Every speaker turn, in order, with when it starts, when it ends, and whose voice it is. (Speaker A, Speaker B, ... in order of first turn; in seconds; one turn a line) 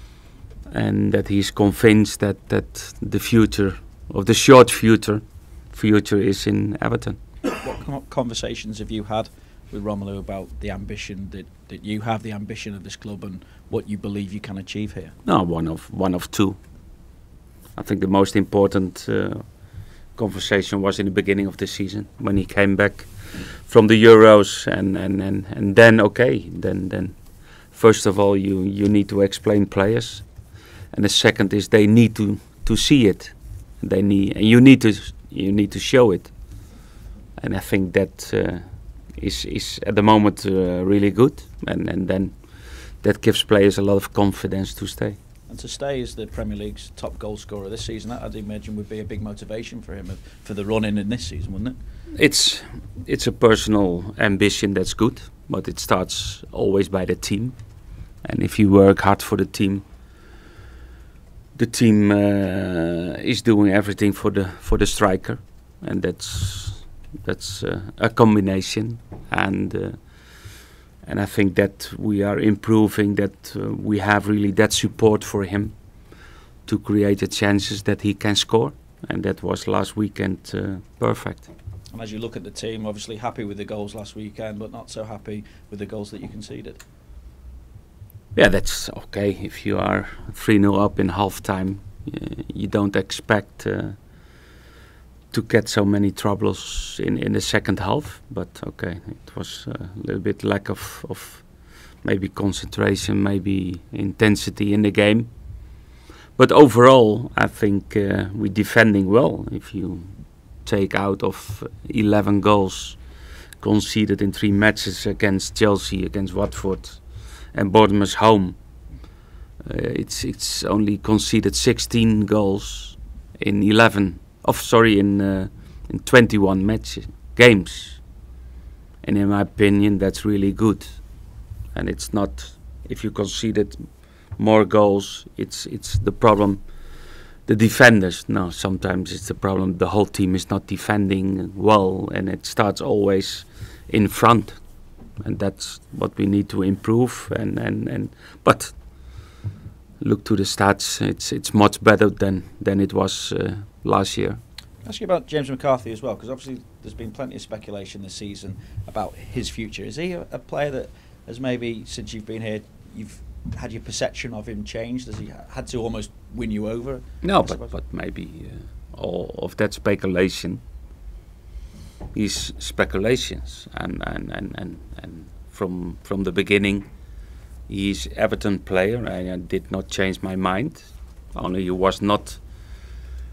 Speaker A: 0.7-7.2
Speaker B: 7.6-15.2
Speaker A: 15.2-16.6
Speaker A: 17.8-36.8
Speaker A: 37.4-45.2
Speaker B: 45.5-51.8
Speaker A: 52.2-57.6
Speaker A: 58.2-59.9
Speaker A: 61.5-76.1
Speaker A: 76.7-81.5
Speaker B: 81.9-86.8
Speaker A: 88.3-94.0
Speaker A: 95.3-105.3
Speaker A: 106.4-113.0
Speaker A: 113.6-118.6
Speaker A: 119.6-128.2
Speaker A: 129.0-149.4
Speaker A: 150.0-154.4
Speaker B: 154.8-167.8
Speaker A: 167.2-170.6
Speaker A: 172.1-176.9
Speaker A: 177.7-182.8